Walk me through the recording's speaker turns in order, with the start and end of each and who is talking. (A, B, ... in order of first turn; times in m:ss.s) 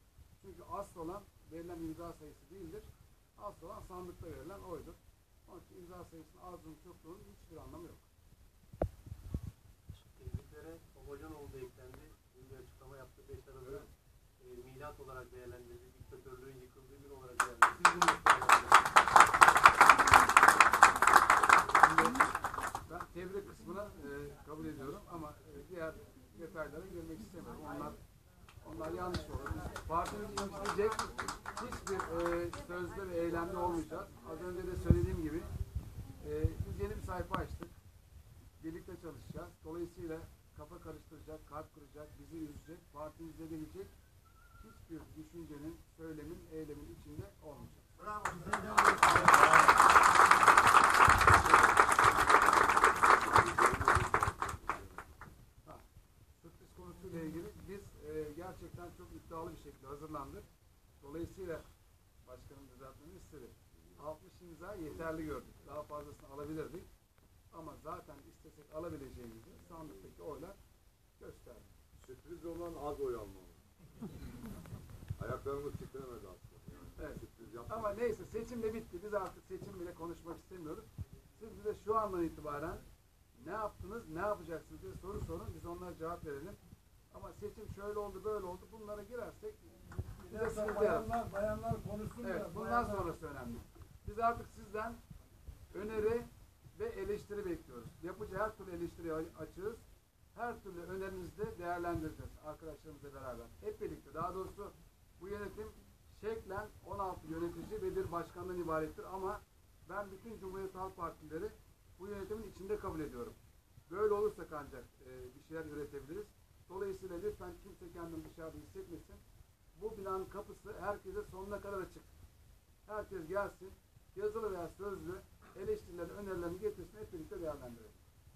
0:00.4-0:08.0 A
0:10.0-0:18.9 B
0:17.8-0:18.2 A
0:21.8-0:22.3 A
0:22.8-0:28.0 A
0:28.6-0:35.5 A
0:36.2-0:37.8 A
0:38.6-0:43.9 A
0:44.6-0:47.9 A
0:53.0-0:55.1 C
0:56.4-1:00.4 A
1:01.0-1:01.6 A
1:02.2-1:06.9 A
1:07.5-1:10.6 A
1:11.2-1:11.7 A
1:12.0-1:13.6 C
1:15.2-1:17.9 C
1:17.0-1:22.8 A
1:23.3-1:26.6 A
1:27.1-1:31.1 A
1:30.3-1:32.9 D
1:32.2-1:35.0 A
1:35.7-1:39.8 A
1:40.3-1:53.4 A
1:53.9-1:59.2 A
1:59.7-2:02.1 A
2:02.8-2:08.0 A